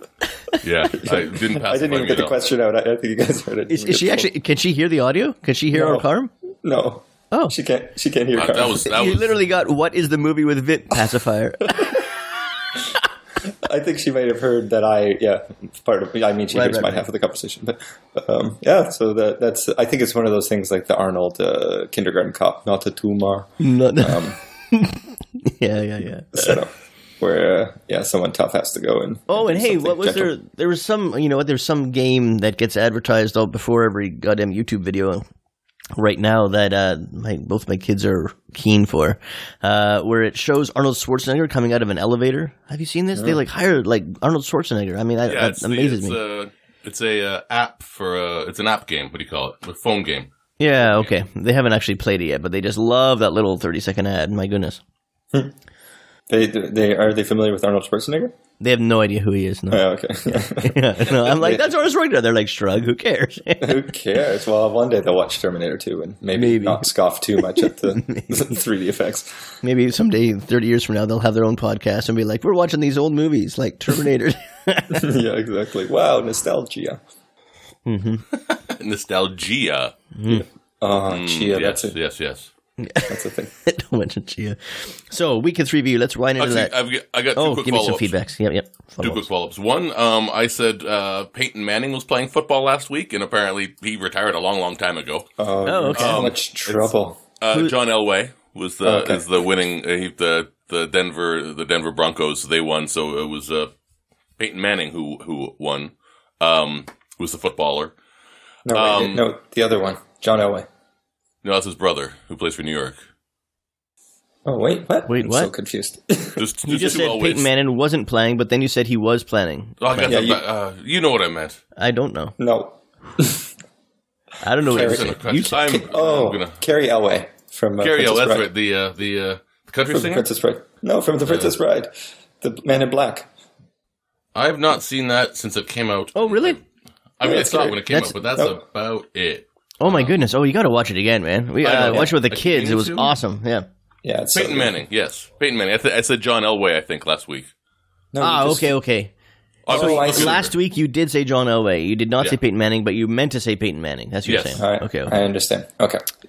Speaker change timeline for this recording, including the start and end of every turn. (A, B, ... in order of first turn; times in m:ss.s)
0:00.6-0:02.4 A
0:00.9-0:04.3 B
0:03.7-0:06.3 C
0:05.7-0:06.0 B
0:06.6-0:08.9 B
0:08.3-0:09.4 A
0:08.8-0:12.0 C
0:13.4-0:24.4 B
0:16.5-0:17.0 C
0:23.6-0:26.6 C
0:26.3-0:30.3 B
0:29.3-0:35.2 C
0:36.0-0:46.2 C
0:43.1-0:43.4 B
0:45.2-0:51.1 A
0:50.6-0:54.8 C
0:56.3-0:58.3 B
0:58.6-0:59.9 C
0:59.7-1:01.7 B
1:00.4-1:03.8 C
1:03.6-1:09.5 B
1:06.3-1:06.8 C
1:07.4-1:08.5 C
1:09.6-1:15.1 C
1:14.9-1:17.0 B
1:17.8-1:18.2 C
1:18.5-1:19.9 A
1:20.1-1:20.4 C
1:20.3-1:22.0 B
1:21.0-1:22.5 A
1:22.8-1:26.7 C
1:23.1-1:23.5 B
1:26.4-1:28.1 A
1:27.4-1:29.2 C
1:29.0-1:35.3 A
1:35.4-1:37.2 B
1:35.6-1:36.3 C
1:35.9-1:43.7 A
1:38.8-1:39.2 B
1:44.4-1:47.9 A
1:48.6-1:50.6 B
1:48.7-1:49.2 A
1:51.4-1:53.0 A
1:54.4-1:56.4 B
1:55.1-1:55.5 C
1:56.4-1:57.5 A
1:56.6-2:00.2 C
1:59.8-2:01.6 A
2:00.0-2:00.4 B
2:01.8-2:02.3 C
2:02.4-2:03.5 B
2:04.4-2:05.8 C
2:04.6-2:08.5 B
2:04.7-2:06.6 A
2:07.8-2:10.3 A
2:09.9-2:13.3 B
2:11.2-2:11.5 A
2:14.3-2:16.6 A
2:16.1-2:16.6 C
2:17.2-2:20.2 A
2:17.2-2:17.8 B
2:17.8-2:18.1 C
2:19.8-2:23.6 C
2:21.6-2:23.1 A
2:21.8-2:22.1 B
2:24.0-2:24.7 B
2:24.3-2:27.5 A
2:28.1-2:28.8 B
2:28.2-2:29.1 C
2:29.6-2:30.5 A
2:29.7-2:30.4 B
2:29.7-2:35.2 C
2:34.2-2:34.6 A
2:34.6-2:36.0 B